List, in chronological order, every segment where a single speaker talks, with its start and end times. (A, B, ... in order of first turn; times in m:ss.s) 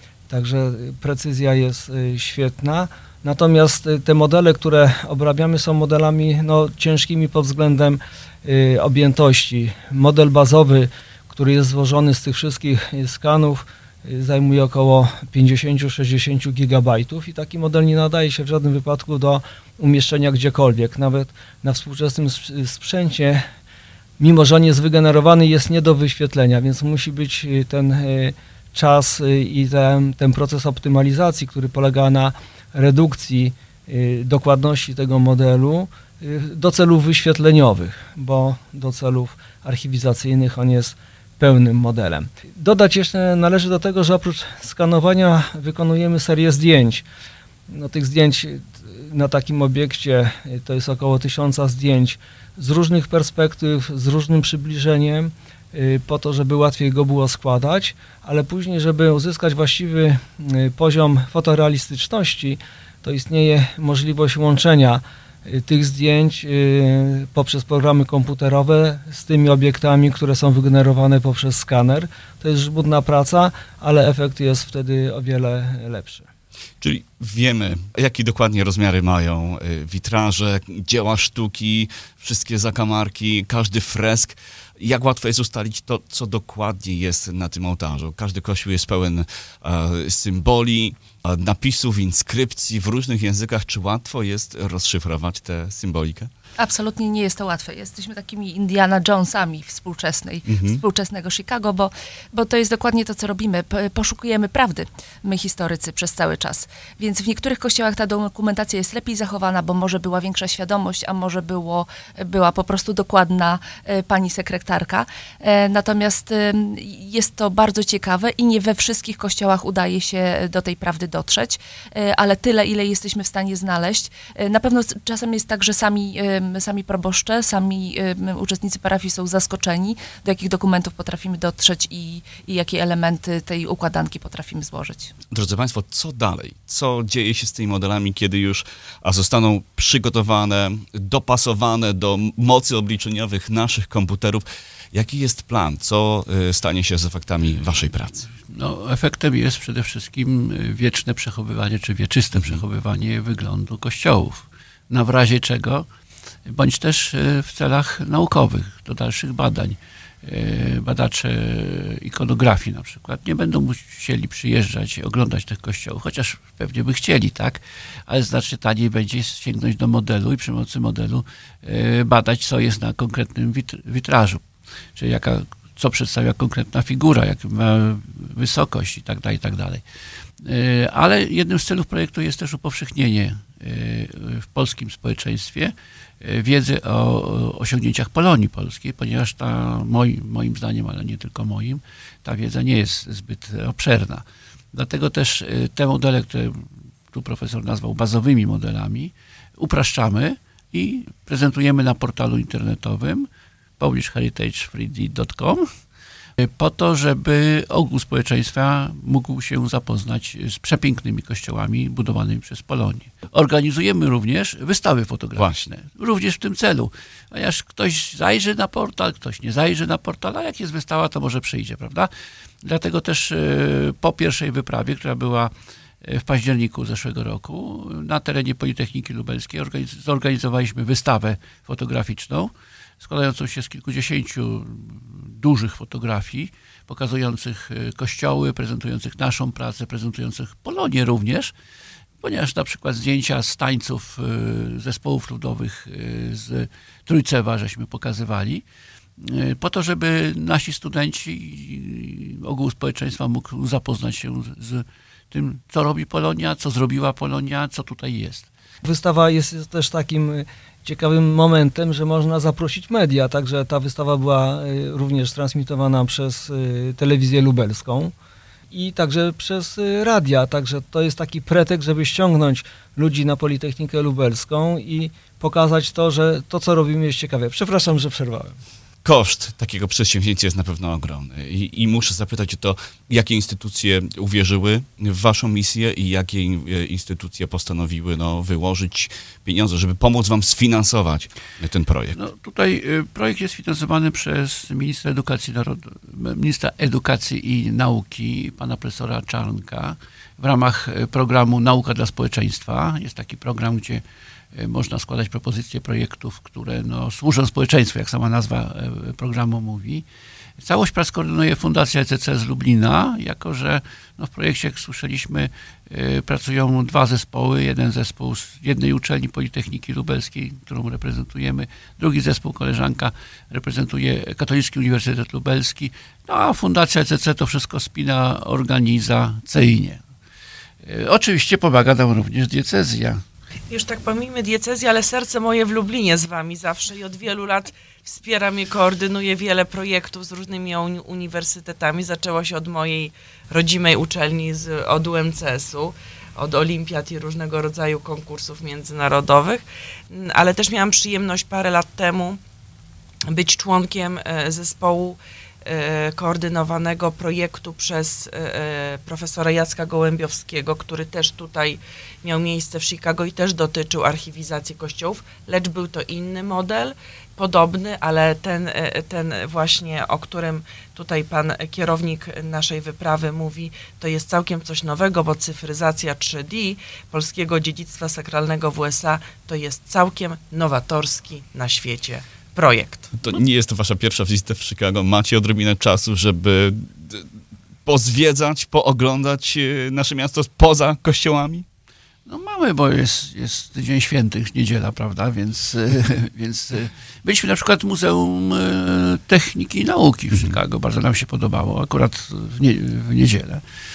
0:00.3-0:23.4 A
0:24.2-0:47.0 A
0:47.7-1:16.3 A
1:16.8-1:36.3 B
1:36.6-2:15.1 C
1:40.5-1:40.8 B
2:15.3-2:28.3 B
2:28.5-2:35.8 D
2:32.3-2:32.6 B
2:36.5-2:54.4 D
2:55.0-2:59.8 D
3:00.4-3:23.3 D
3:23.8-3:25.7 D
3:26.4-3:42.1 D
3:35.4-3:35.6 B
3:42.6-4:01.5 D
4:02.2-4:08.6 D
4:09.2-4:18.5 D
4:18.8-4:28.1 A
4:28.7-4:38.6 A
4:39.0-4:52.2 B
4:52.2-5:04.0 D
5:04.6-5:10.0 D
5:10.6-5:30.0 D
5:30.8-5:33.2 D
5:33.7-5:52.4 E
5:53.3-6:23.2 E
6:23.2-6:27.3 B
6:27.9-6:31.7 B
6:32.3-6:43.6 D